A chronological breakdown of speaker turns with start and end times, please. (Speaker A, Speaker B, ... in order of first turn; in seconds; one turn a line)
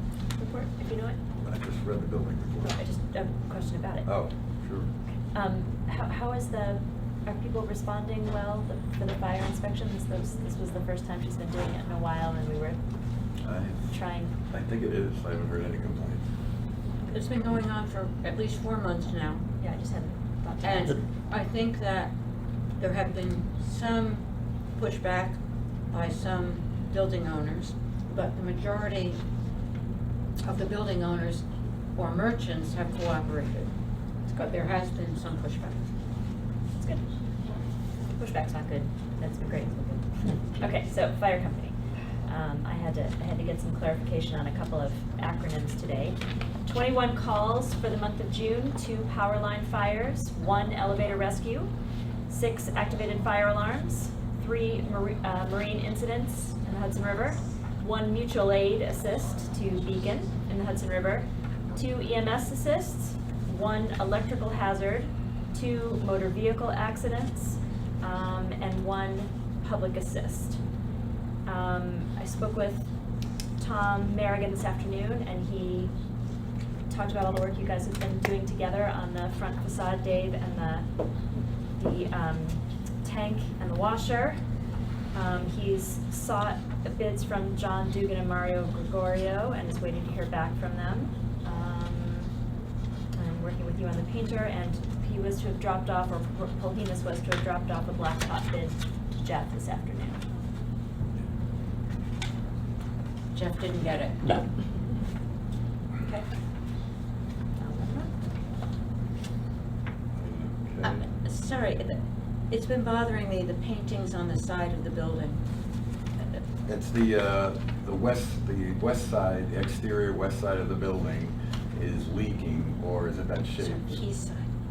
Speaker A: 0.4-1.2
Speaker B: 1.4-2.8
Speaker A: 2.6-4.1
Speaker B: 4.1-4.9
Speaker A: 5.3-12.8
Speaker B: 13.4-13.8
Speaker A: 13.9-14.3
Speaker B: 14.5-16.2
Speaker C: 17.1-19.4
Speaker A: 19.6-21.0
Speaker C: 20.6-22.1
Speaker C: 22.8-24.2
Speaker C: 24.8-25.4
Speaker C: 25.9-29.2
Speaker C: 30.4-33.7
Speaker C: 34.3-35.9
Speaker A: 36.8-37.1
Speaker A: 38.1-51.7
Speaker A: 52.3-70.6
Speaker A: 71.5-72.9
Speaker A: 73.6-75.9
Speaker A: 76.9-80.9
Speaker A: 81.8-84.4
Speaker A: 85.1-92.3
Speaker A: 93.2-100.2
Speaker C: 103.3-104.5
Speaker C: 107.6-108.1
Speaker B: 110.2-111.0
Speaker C: 110.8-115.4
Speaker B: 116.7-124.0
Speaker C: 123.6-124.5